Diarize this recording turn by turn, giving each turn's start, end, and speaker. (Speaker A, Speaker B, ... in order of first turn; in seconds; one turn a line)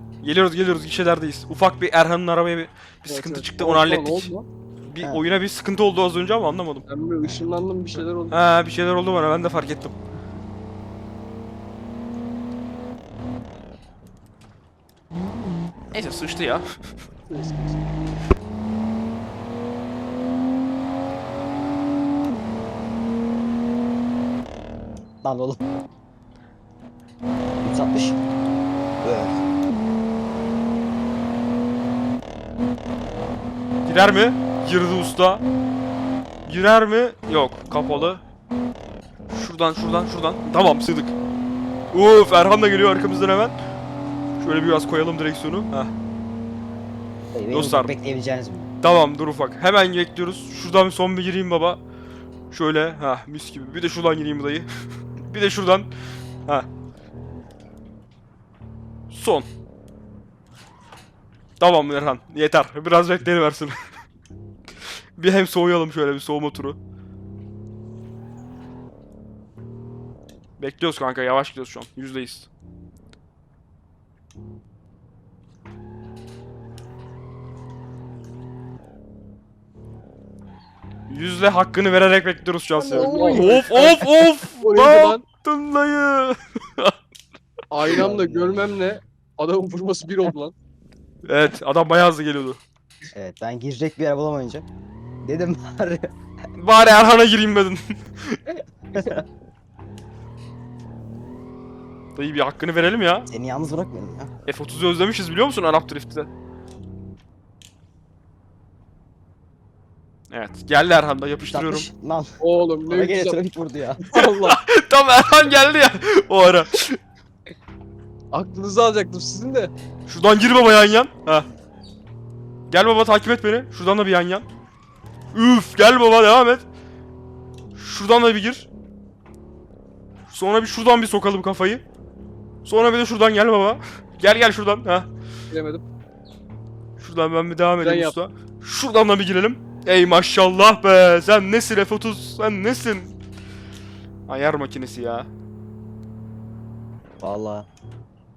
Speaker A: 0.2-4.3
Speaker B: 3.0-4.5
Speaker A: 4.8-6.8
Speaker B: 6.9-8.4
Speaker A: 8.3-9.9
Speaker A: 15.9-16.6
Speaker B: 17.3-17.8
Speaker C: 25.2-25.6
Speaker C: 27.6-28.2
Speaker C: 29.0-29.4
Speaker A: 33.9-35.4
Speaker A: 36.4-38.2
Speaker A: 39.3-41.1
Speaker A: 41.9-43.5
Speaker A: 44.4-45.9
Speaker C: 47.3-48.7
Speaker A: 47.5-47.9
Speaker A: 48.8-51.8
Speaker A: 52.5-54.7
Speaker A: 55.2-55.9
Speaker A: 59.1-59.5
Speaker A: 61.6-63.8
Speaker A: 65.2-66.8
Speaker A: 70.6-72.5
Speaker A: 81.1-86.9
Speaker B: 82.8-85.2
Speaker C: 82.9-83.9
Speaker B: 87.7-90.5
Speaker C: 87.9-88.6
Speaker A: 91.2-92.6
Speaker C: 93.1-94.7
Speaker C: 95.2-96.1
Speaker A: 96.5-98.4
Speaker C: 98.9-99.2
Speaker A: 102.1-103.3
Speaker C: 103.3-104.3
Speaker A: 104.5-106.3
Speaker A: 110.3-111.9
Speaker C: 111.4-112.3
Speaker B: 112.4-113.4
Speaker C: 112.9-114.0
Speaker B: 114.0-114.6
Speaker A: 114.2-117.0
Speaker B: 118.3-119.7
Speaker A: 120.1-121.5
Speaker A: 122.7-124.5
Speaker A: 125.3-126.6
Speaker A: 127.7-128.7
Speaker A: 130.3-131.8
Speaker A: 132.6-135.1
Speaker B: 135.5-135.8
Speaker A: 137.0-143.1
Speaker B: 137.8-138.2
Speaker A: 144.3-145.3
Speaker C: 147.2-147.7